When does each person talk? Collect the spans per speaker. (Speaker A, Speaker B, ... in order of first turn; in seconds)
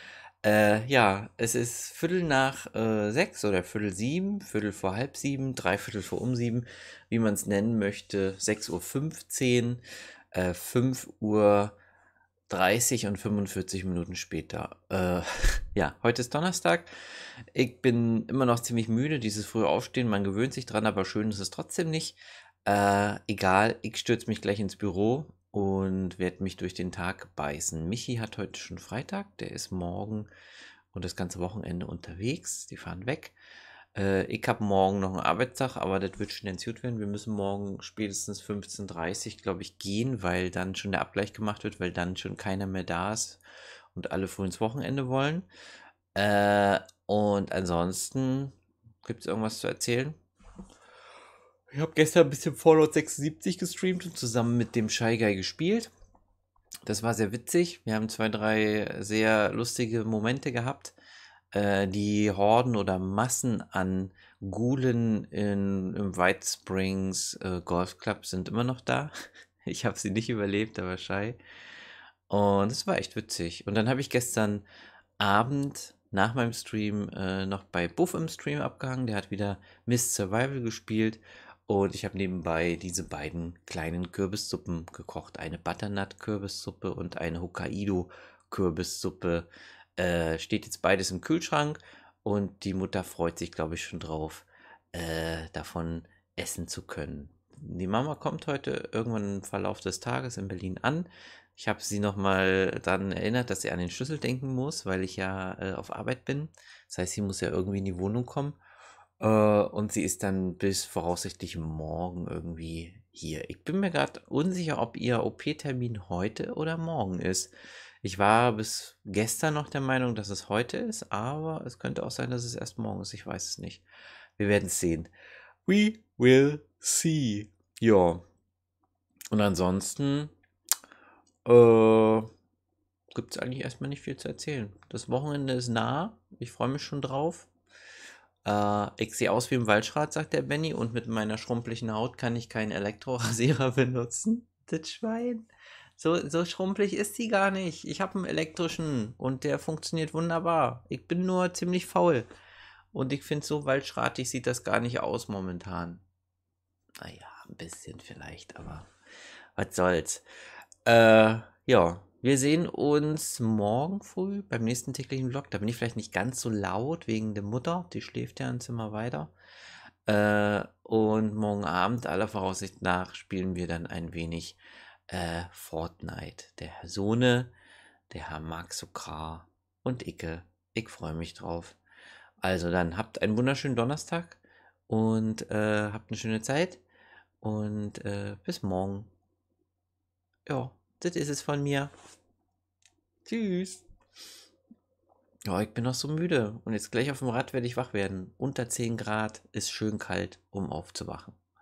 Speaker A: 0.4-9.8, 10.3-11.7, 12.5-16.9, 17.5-30.3, 30.9-33.3, 34.0-43.4, 43.9-45.5, 46.1-50.2, 51.7-55.9, 56.9-61.0, 61.5-69.1, 69.7-71.4, 72.3-74.7, 75.2-108.6, 109.2-123.8, 124.4-125.1, 125.7-128.2, 129.3-130.3, 131.4-132.3, 133.1-137.5, 138.4-145.5, 146.0-152.3, 152.9-156.0, 157.0-158.9, 159.6-160.2, 160.9-169.3, 170.1-177.5, 178.1-181.8, 182.4-186.8, 187.4-189.1, 190.5-191.9, 193.3-193.8, 195.5-201.4